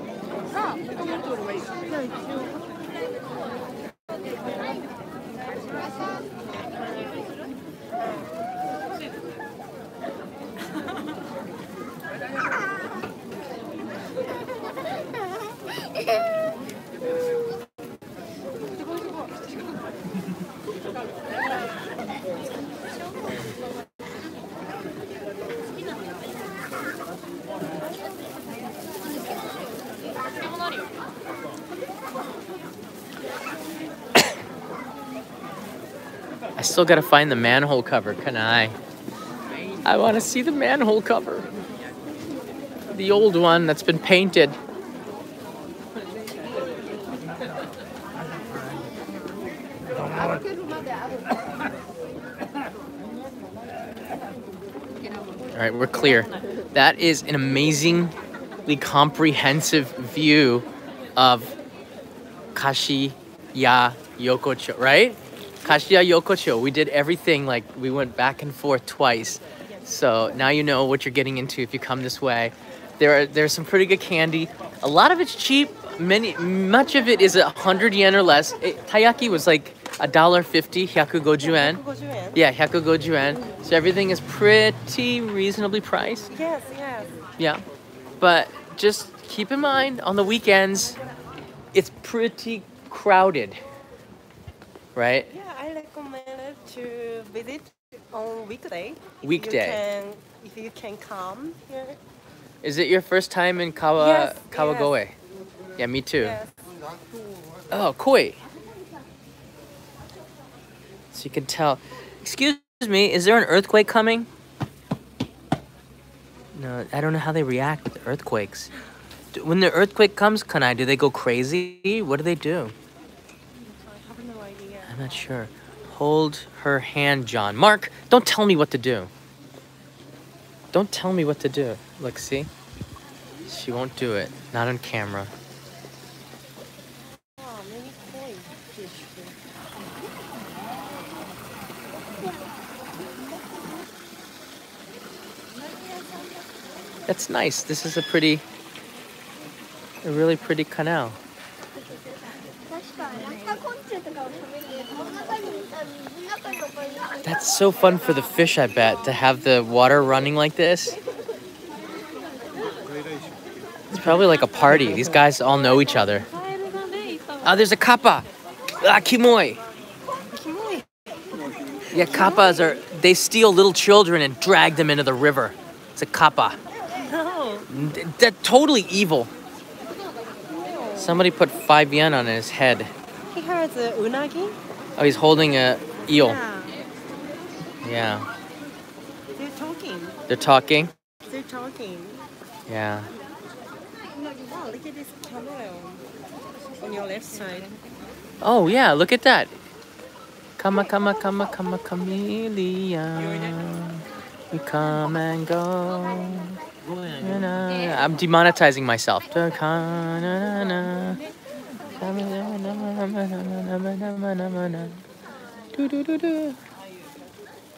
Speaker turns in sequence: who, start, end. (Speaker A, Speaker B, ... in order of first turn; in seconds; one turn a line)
Speaker A: 1.9-2.2
Speaker B: 36.6-38.8
Speaker B: 39.9-41.5
Speaker B: 42.9-44.6
Speaker B: 55.5-58.1
Speaker B: 58.7-61.6
Speaker B: 62.5-81.8
Speaker A: 81.4-82.4
Speaker B: 82.3-86.3
Speaker A: 86.3-87.2
Speaker B: 88.2-91.0
Speaker B: 91.7-93.6
Speaker B: 95.0-95.3
Speaker A: 95.3-102.0
Speaker B: 99.2-99.8
Speaker B: 102.6-105.2
Speaker A: 104.0-105.0
Speaker B: 105.8-106.4
Speaker A: 106.2-106.5
Speaker B: 107.7-108.4
Speaker B: 111.1-114.3
Speaker B: 116.5-118.7
Speaker B: 119.3-122.8
Speaker A: 123.8-125.0
Speaker B: 124.9-129.1
Speaker B: 130.7-132.5
Speaker B: 133.5-135.3
Speaker A: 137.4-139.4
Speaker B: 147.1-148.4
Speaker B: 150.0-151.2
Speaker B: 157.2-161.0
Speaker B: 163.9-166.3
Speaker A: 166.3-167.7
Speaker B: 167.4-168.3
Speaker B: 168.8-169.6
Speaker A: 170.3-170.9
Speaker A: 171.9-172.6
Speaker B: 171.9-176.6
Speaker A: 176.9-177.7
Speaker B: 177.7-179.3
Speaker A: 180.5-181.3
Speaker B: 181.0-182.9
Speaker A: 183.3-184.6
Speaker B: 185.0-186.4
Speaker A: 186.1-186.8
Speaker B: 187.8-188.3
Speaker A: 189.3-190.2
Speaker B: 190.3-190.9
Speaker A: 191.2-192.2
Speaker B: 192.7-193.1
Speaker A: 194.1-196.1
Speaker A: 196.7-197.8
Speaker B: 198.4-199.5
Speaker B: 200.6-206.6
Speaker B: 207.2-211.2
Speaker B: 212.0-215.0
Speaker B: 215.7-216.6